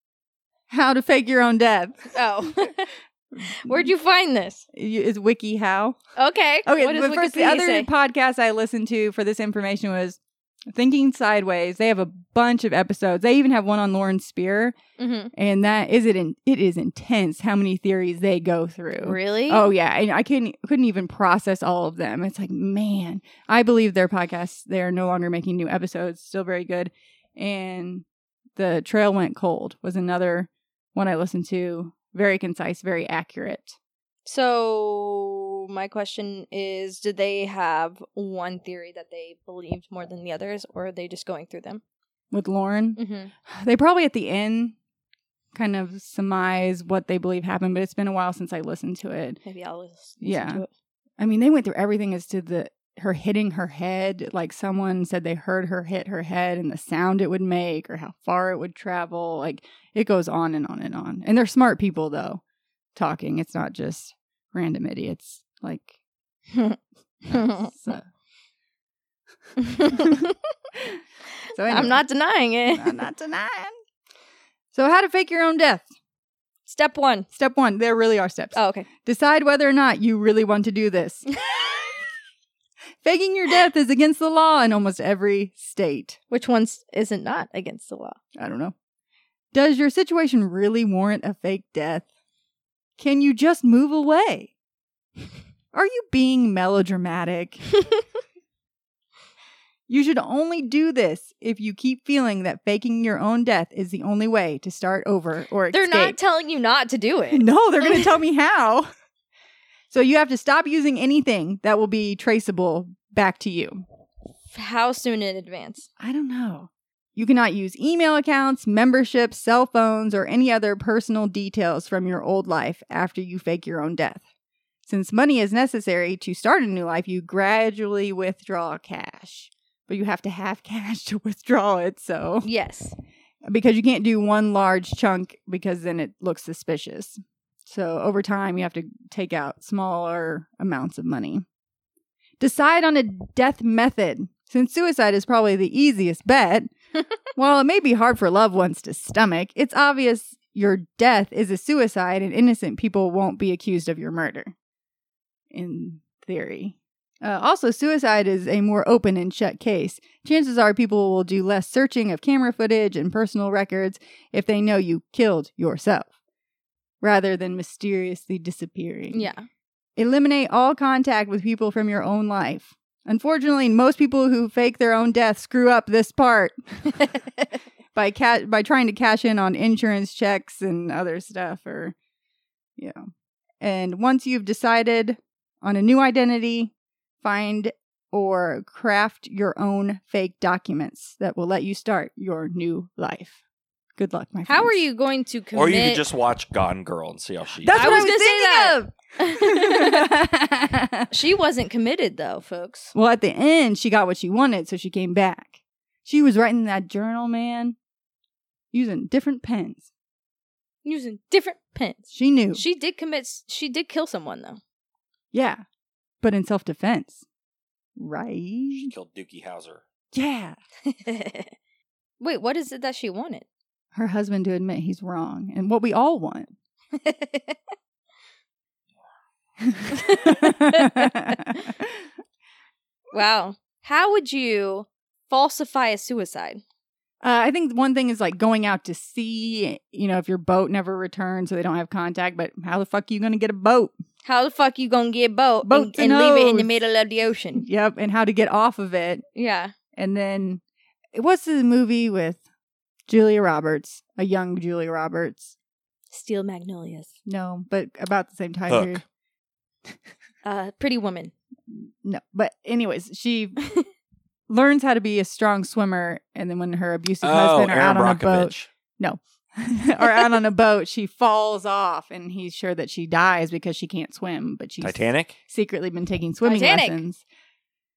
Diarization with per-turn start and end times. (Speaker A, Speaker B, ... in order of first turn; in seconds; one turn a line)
Speaker A: 0.7-2.1
Speaker B: 2.1-4.6
Speaker A: 4.7-6.0
Speaker B: 6.2-7.9
Speaker A: 6.7-10.2
Speaker A: 10.7-14.8
Speaker B: 15.0-15.3
Speaker A: 15.3-28.0
Speaker B: 19.0-19.6
Speaker A: 28.6-33.8
Speaker B: 34.2-41.8
Speaker A: 42.3-44.7
Speaker B: 43.0-43.3
Speaker A: 45.5-49.4
Speaker B: 49.4-50.7
Speaker A: 50.2-50.6
Speaker A: 51.2-62.4
Speaker A: 62.9-66.0
Speaker B: 67.3-67.7
Speaker A: 67.3-68.0
Speaker B: 69.6-70.3
Speaker A: 71.5-72.0
Speaker B: 71.7-73.0
Speaker A: 72.7-73.8
Speaker A: 74.7-75.9
Speaker B: 76.7-77.3
Speaker A: 77.3-81.4
Speaker B: 78.5-78.9
Speaker A: 83.0-86.2
Speaker B: 86.3-88.2
Speaker A: 88.4-88.7
Speaker A: 89.5-92.0
Speaker A: 93.0-94.5
Speaker A: 95.7-97.8
Speaker A: 99.9-106.2
Speaker B: 105.7-107.5
Speaker A: 107.3-108.9
Speaker A: 109.9-113.8
Speaker B: 114.5-115.9
Speaker A: 116.0-124.2
Speaker A: 124.9-132.4
Speaker B: 132.4-132.9
Speaker A: 133.4-141.4
Speaker A: 142.4-146.7
Speaker A: 147.3-154.5
Speaker A: 155.5-166.1
Speaker A: 167.0-169.3
Speaker B: 169.1-169.5
Speaker A: 170.0-177.1
Speaker A: 177.9-181.9
Speaker A: 182.8-183.1
Speaker A: 183.6-193.4
Speaker A: 193.9-194.8
Speaker B: 194.4-196.0
Speaker C: 195.5-198.0
Speaker A: 197.6-201.1
Speaker B: 197.7-200.1
Speaker B: 201.1-202.9
Speaker A: 202.9-207.8
Speaker A: 208.7-209.9
Speaker B: 210.8-214.6
Speaker A: 212.1-212.6
Speaker A: 215.3-215.6
Speaker A: 216.2-217.2
Speaker A: 218.0-218.9
Speaker C: 218.7-219.8
Speaker A: 220.1-220.6
Speaker B: 220.8-221.5
Speaker B: 222.2-223.4
Speaker A: 223.9-226.5
Speaker B: 226.9-227.6
Speaker A: 229.6-232.0
Speaker B: 229.9-231.6
Speaker B: 233.1-236.6
Speaker A: 237.2-243.9
Speaker B: 244.2-247.6
Speaker A: 245.7-246.7
Speaker A: 247.6-249.2
Speaker B: 249.3-249.7
Speaker A: 249.9-250.6
Speaker A: 251.1-252.4
Speaker A: 253.1-255.5
Speaker B: 256.1-257.1
Speaker A: 257.2-259.0
Speaker C: 258.7-259.0
Speaker B: 260.4-261.3
Speaker A: 261.7-263.6
Speaker A: 264.5-277.2
Speaker C: 267.2-268.7
Speaker C: 274.8-275.4
Speaker B: 276.4-277.0